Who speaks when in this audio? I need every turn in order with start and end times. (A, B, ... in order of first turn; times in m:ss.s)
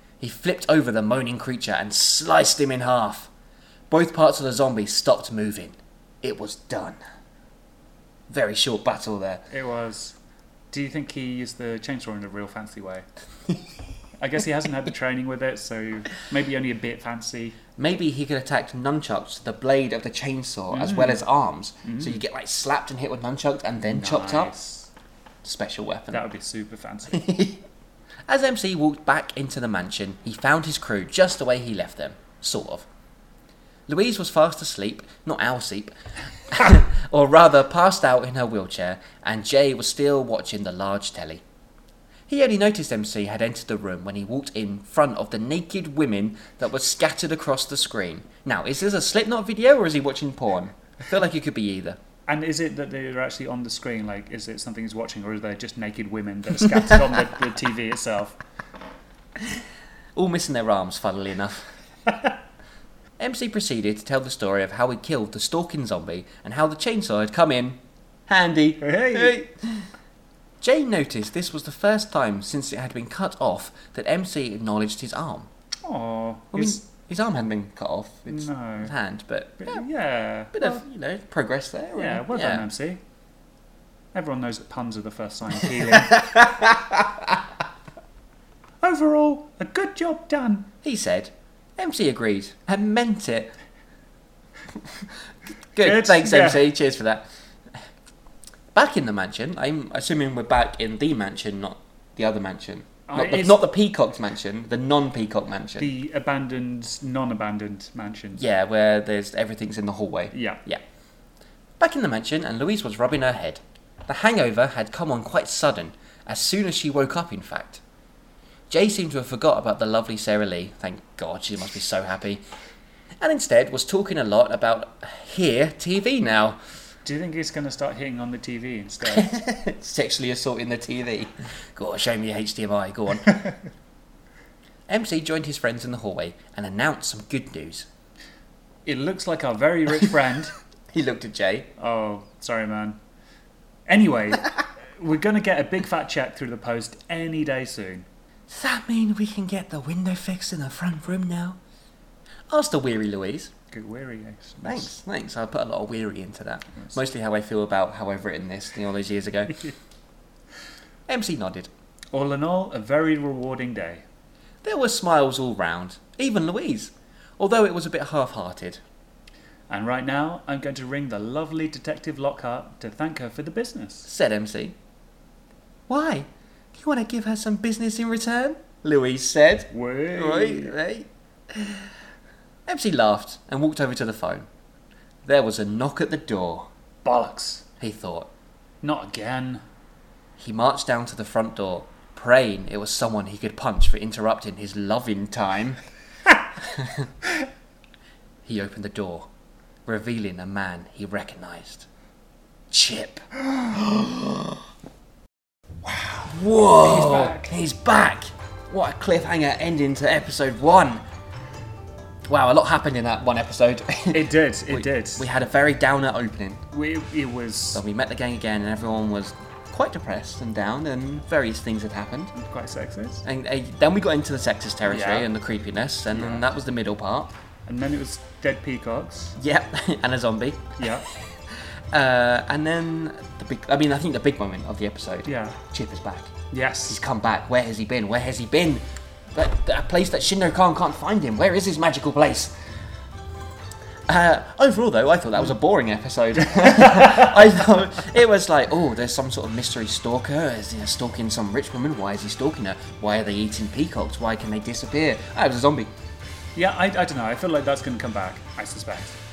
0:00.2-0:03.3 A
0:03.9-0:07.0 A
0:08.3-0:09.4 A
0:09.5-0:10.2 B
0:10.7-0:13.0 B
0:14.2-0:17.6 B
0:17.8-0:24.5 A
0:20.7-0:21.2 B
0:21.8-0:22.2 B
0:23.8-0:24.9 B
0:25.4-0:26.2 A
0:26.1-0:27.3 B
0:27.1-0:27.6 A
0:28.3-0:32.8 A
0:33.9-0:35.9 A
0:36.5-0:41.4 A
0:42.3-0:52.0 A
0:52.3-0:58.4 B
1:00.1-1:01.7 A
1:03.2-1:09.9 A
1:08.8-1:09.4 B
1:10.6-1:15.5 A
1:15.8-1:16.8 B
1:16.5-1:19.8 A
1:18.3-1:18.9 B
1:19.6-1:20.8 B
1:20.5-1:22.7 A
1:22.0-1:23.0 B
1:24.1-1:26.3 B
1:26.0-1:27.4 A
1:28.8-1:30.7 B
1:30.8-1:33.5 A
1:35.7-1:37.3 A
1:35.8-1:36.7 B
1:38.7-1:45.9 A
1:43.1-1:43.6 B
1:45.8-1:48.4 B
1:48.4-1:50.8 A
1:50.3-1:50.6 B
1:51.8-1:57.8 A
1:58.7-2:02.4 A
2:03.2-2:06.6 A
2:07.0-2:09.3 B
2:09.0-2:13.4 A
2:14.9-2:17.9 A
2:18.8-2:20.5 B
2:20.9-2:21.7 A
2:21.8-2:23.0 B
2:23.8-2:28.1 B
2:28.5-2:31.6 A
2:32.5-2:33.5 A
2:33.7-2:34.9 B
2:34.6-2:39.7 A
2:41.1-2:41.7 A
2:42.1-2:44.0 B
2:44.6-2:48.8 A
2:49.7-2:54.1 B
2:54.0-2:54.8 A
2:55.9-3:01.8 A
2:59.7-3:00.7 B
3:02.7-3:04.5 A
3:05.2-3:06.7 A
3:07.0-3:07.6 B
3:07.8-3:08.3 A
3:08.8-3:09.6 B
3:10.4-3:15.8 A
3:16.6-3:17.1 A
3:18.4-3:19.3 A
3:19.9-3:21.9 A
3:22.7-3:24.6 A
3:25.8-3:31.0 A
3:26.8-3:27.5 B
3:32.2-3:36.6 A
3:34.1-3:35.3 B
3:36.7-3:37.8 B
3:37.7-3:42.3 A
3:42.3-3:43.2 B
3:43.2-3:47.3 A
3:44.8-3:45.3 B
3:46.1-3:46.4 B
3:47.6-3:49.4 B
3:49.4-3:50.8 A
3:50.8-3:51.0 B
3:51.9-3:56.3 A
3:55.2-3:55.6 B
3:56.5-3:57.0 B
3:56.8-3:58.8 A
3:59.3-4:02.5 A
4:04.1-4:15.9 A
4:16.5-4:19.2 B